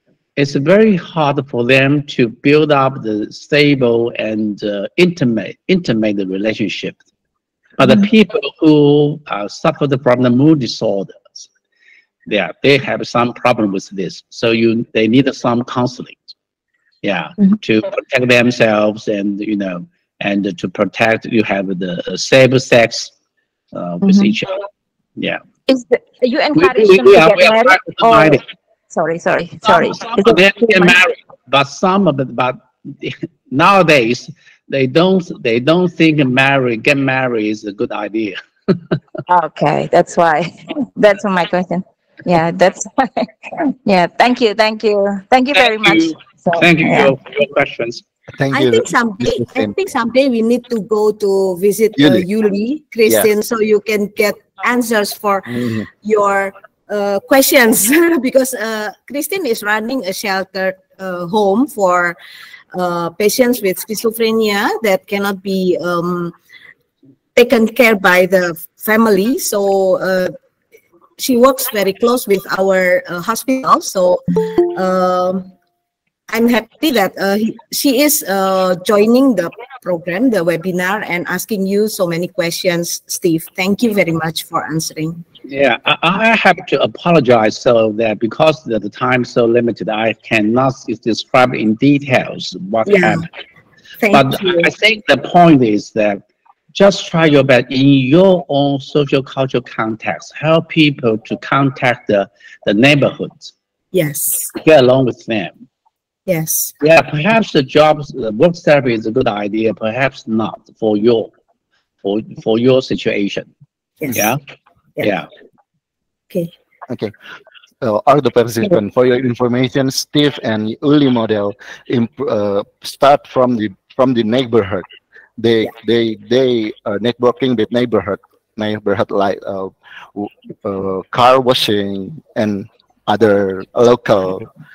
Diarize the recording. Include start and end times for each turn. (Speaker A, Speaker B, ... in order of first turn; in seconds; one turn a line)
Speaker A: 0.4-7.0
Speaker A: 7.8-11.5
Speaker A: 12.3-16.3
Speaker A: 17.0-23.1
Speaker A: 23.7-24.6
Speaker B: 24.0-24.3
Speaker B: 25.7-30.9
Speaker A: 26.6-28.4
Speaker A: 29.6-38.7
Speaker B: 39.3-47.1
Speaker A: 45.5-48.0
Speaker C: 48.3-49.7
Speaker D: 48.5-62.2
Speaker C: 52.0-52.3
Speaker C: 55.5-55.9
Speaker D: 62.7-66.3
Speaker D: 67.3-70.3
Speaker D: 71.2-74.2
Speaker D: 74.7-75.5
Speaker D: 76.3-85.2
Speaker A: 85.5-93.3
Speaker D: 92.8-93.2
Speaker D: 94.0-94.7
Speaker A: 94.1-96.2
Speaker A: 96.7-103.5
Speaker D: 103.9-104.5
Speaker A: 104.5-105.6
Speaker D: 106.3-106.7
Speaker A: 106.8-111.3
Speaker A: 112.0-113.5
Speaker D: 114.0-114.3
Speaker A: 114.1-114.4
Speaker A: 115.0-115.3
Speaker C: 116.9-117.1
Speaker C: 117.8-124.9
Speaker C: 125.4-134.5